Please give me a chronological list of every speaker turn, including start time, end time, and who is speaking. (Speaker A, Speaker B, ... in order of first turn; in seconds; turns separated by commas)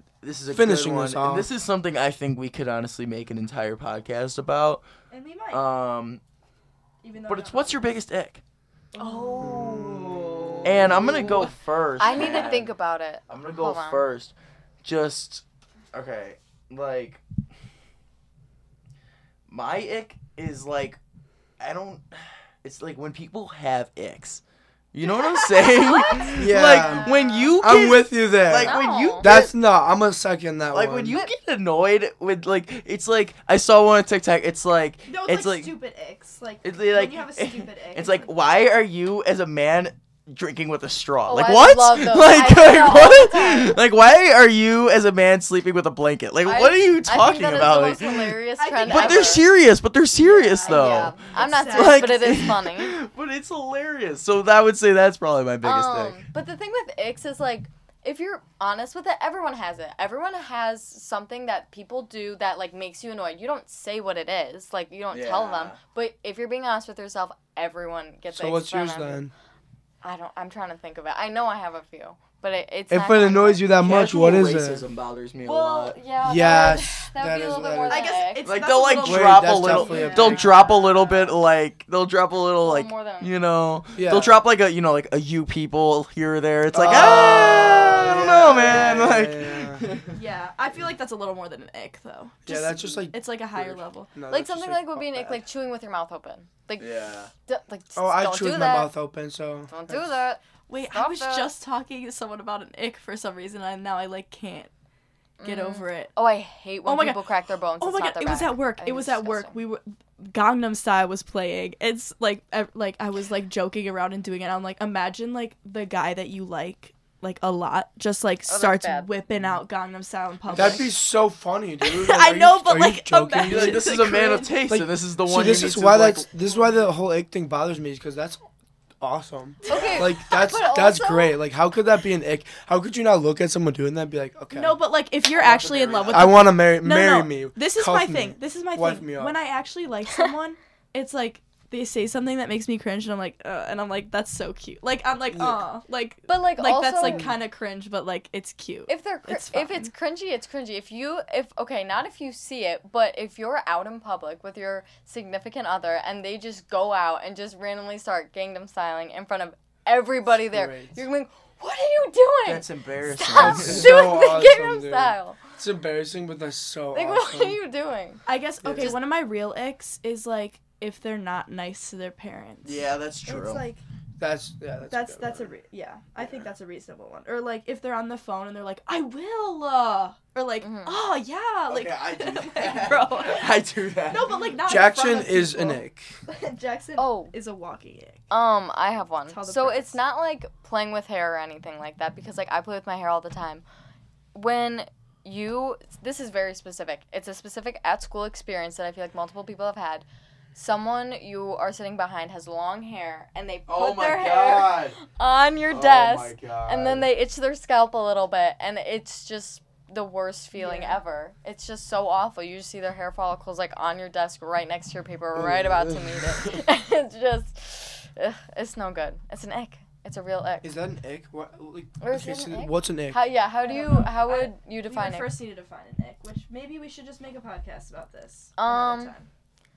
Speaker A: 0.2-4.8, Speaker B: 0.5-1.5, Speaker C: 5.1-5.6, Speaker A: 5.5-6.2, Speaker C: 7.0-7.9, Speaker A: 7.3-8.4, Speaker C: 9.0-9.6, Speaker D: 9.0-9.7, Speaker B: 9.4-11.5, Speaker A: 9.7-12.7, Speaker D: 12.0-14.1, Speaker A: 13.3-17.2, Speaker A: 19.5-21.0, Speaker A: 21.6-24.4, Speaker A: 24.9-29.5, Speaker D: 25.8-27.5, Speaker B: 26.3-31.2, Speaker C: 26.8-27.4, Speaker D: 28.6-29.3, Speaker A: 30.7-35.8, Speaker C: 35.1-38.3, Speaker A: 36.6-56.2, Speaker D: 41.3-43.8, Speaker D: 46.4-49.5, Speaker C: 48.6-49.5, Speaker C: 50.2-52.5, Speaker D: 50.6-53.0, Speaker D: 55.6-69.2, Speaker A: 65.1-65.8, Speaker B: 68.3-69.3, Speaker D: 70.0-73.8, Speaker B: 72.9-74.8, Speaker A: 73.8-76.0, Speaker D: 75.4-78.5, Speaker B: 76.2-78.2, Speaker C: 77.9-80.7, Speaker A: 78.4-90.1, Speaker B: 79.0-80.3, Speaker D: 79.9-81.4, Speaker D: 82.6-83.3, Speaker B: 84.0-84.4, Speaker B: 86.7-89.9, Speaker C: 90.1-94.1, Speaker B: 92.5-95.4, Speaker D: 94.3-96.9, Speaker A: 96.8-97.3, Speaker D: 97.5-98.9, Speaker B: 98.0-100.1, Speaker D: 99.7-101.5, Speaker C: 100.7-104.7, Speaker D: 105.4-109.5, Speaker C: 105.4-106.1, Speaker C: 106.8-120.9, Speaker D: 118.5-119.1, Speaker A: 120.5-120.8, Speaker B: 120.5-123.9, Speaker C: 121.8-124.6, Speaker A: 123.4-126.3, Speaker B: 124.7-128.4, Speaker B: 129.0-134.8, Speaker C: 129.6-130.1, Speaker D: 129.6-131.4, Speaker C: 134.5-149.9, Speaker A: 135.3-136.4, Speaker B: 136.1-139.4, Speaker B: 145.3-145.6, Speaker D: 146.3-147.3, Speaker B: 147.0-147.4, Speaker D: 148.9-165.4, Speaker B: 160.5-161.0, Speaker A: 162.4-164.1, Speaker B: 163.3-167.6, Speaker D: 166.9-168.2, Speaker C: 168.2-173.8, Speaker B: 168.6-168.9, Speaker A: 172.6-173.7, Speaker B: 174.2-175.5, Speaker C: 174.9-183.5, Speaker D: 180.6-181.0, Speaker A: 181.7-184.4, Speaker C: 184.1-188.2, Speaker B: 184.7-186.1, Speaker D: 187.0-187.3, Speaker D: 188.3-193.6, Speaker C: 189.3-189.9, Speaker D: 194.3-220.7, Speaker A: 203.7-205.0, Speaker A: 205.7-207.1, Speaker C: 210.6-211.0, Speaker B: 215.3-216.6, Speaker B: 220.6-223.2, Speaker D: 222.0-225.3, Speaker C: 223.6-229.3, Speaker D: 228.6-229.1